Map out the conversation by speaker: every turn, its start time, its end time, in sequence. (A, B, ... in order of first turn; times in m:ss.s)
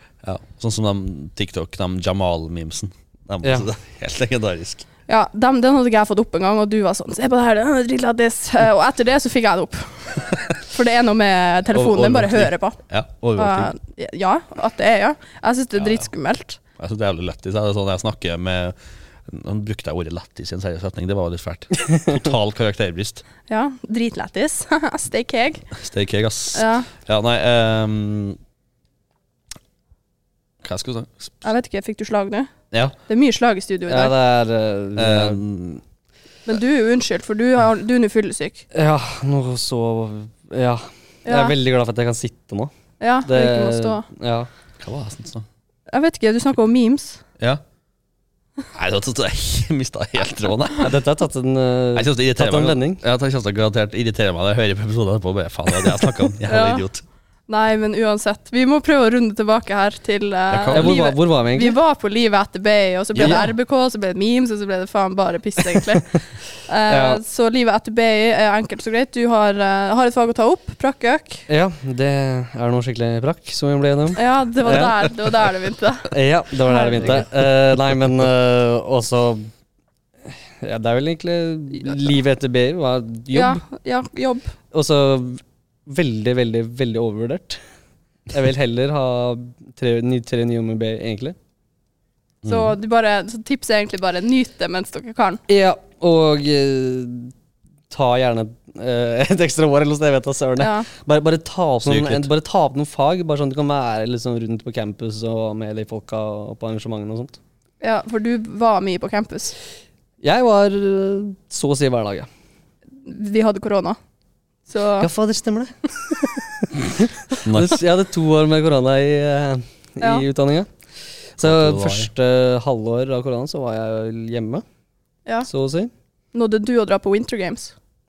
0:00.2-0:04.9 A
0:03.4-0:03.7 B
0:05.1-0:12.8 C
0:11.7-0:13.7 A
0:13.4-0:16.6 C
0:16.8-0:23.2 A
0:23.5-0:25.7 C
0:25.8-0:28.4 A
0:26.5-0:26.9 C
0:30.6-0:31.4 A
0:31.4-0:32.5 C
0:33.1-0:34.2 C
0:33.9-0:35.4 B
0:35.0-0:35.8 A
0:36.5-0:38.6 C
0:38.7-0:42.7 B
0:41.3-0:41.6 C
0:43.0-0:44.0 C
0:43.3-0:44.5 B
0:44.8-0:45.5 A
0:45.9-0:47.2 C
0:48.7-0:51.0 A
0:50.8-0:53.0 B
0:52.0-0:57.0 A
0:56.5-0:56.9 C
0:57.5-1:11.4 C
1:00.5-1:01.0 A
1:00.7-1:01.8 B
1:03.2-1:03.5 A
1:03.2-1:03.4 B
1:06.9-1:07.2 B
1:11.5-1:15.1 B
1:14.2-1:16.1 C
1:16.1-1:19.5 B
1:16.7-1:17.2 C
1:20.3-1:23.6 B
1:23.3-1:24.5 C
1:24.7-1:27.6 B
1:28.3-1:31.4 B
1:32.4-1:32.8 A
1:32.4-1:35.4 C
1:35.5-1:37.3 B
1:37.9-1:47.4 B
1:40.6-1:40.9 C
1:41.9-1:42.3 A
1:47.8-1:49.6 C
1:50.2-1:52.3 B
1:53.0-1:54.0 C
1:54.7-1:55.1 C
1:55.0-2:00.7 B
1:57.4-1:57.8 A
2:01.4-2:04.6 B
2:01.4-2:02.1 A
2:05.5-2:05.9 B
2:06.3-2:07.7 C